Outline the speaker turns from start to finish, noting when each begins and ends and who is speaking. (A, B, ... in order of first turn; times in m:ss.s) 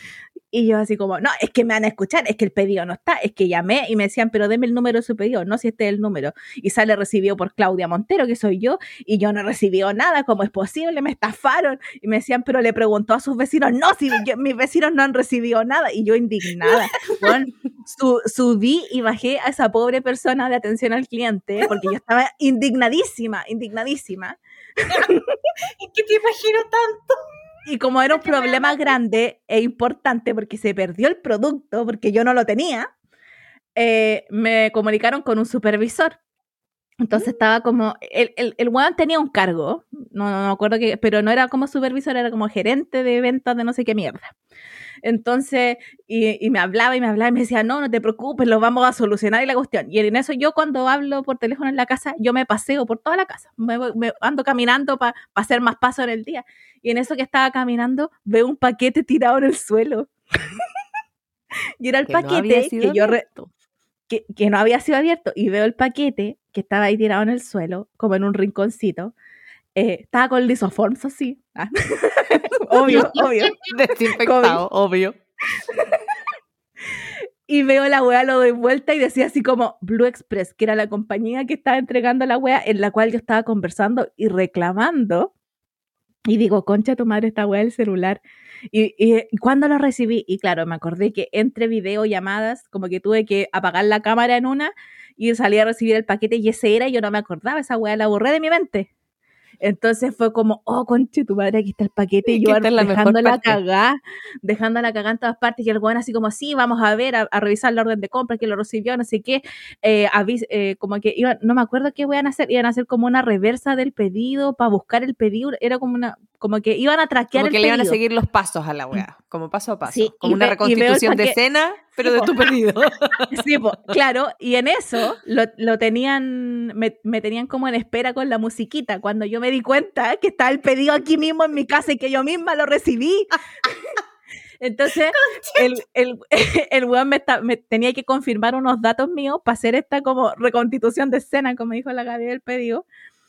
0:00.5-0:25.2 A
0:25.8-0:27.2 B
0:27.6-0:32.9 A
0:28.1-0:28.9 B
0:33.8-0:36.2 A
0:37.0-0:44.3 A
0:45.0-1:00.1 A
1:01.8-1:03.3 A
1:02.1-1:03.5 C
1:04.1-1:09.1 A
1:09.8-1:14.6 A
1:13.6-1:15.2 C
1:17.0-1:25.3 A
1:26.3-1:38.9 A
1:39.6-1:58.0 A
1:42.3-1:43.6 C
1:57.4-2:03.3 C
1:59.9-2:01.4 A
2:02.0-2:02.3 A
2:03.3-2:13.7 A
2:14.6-2:22.8 A
2:15.4-2:15.6 B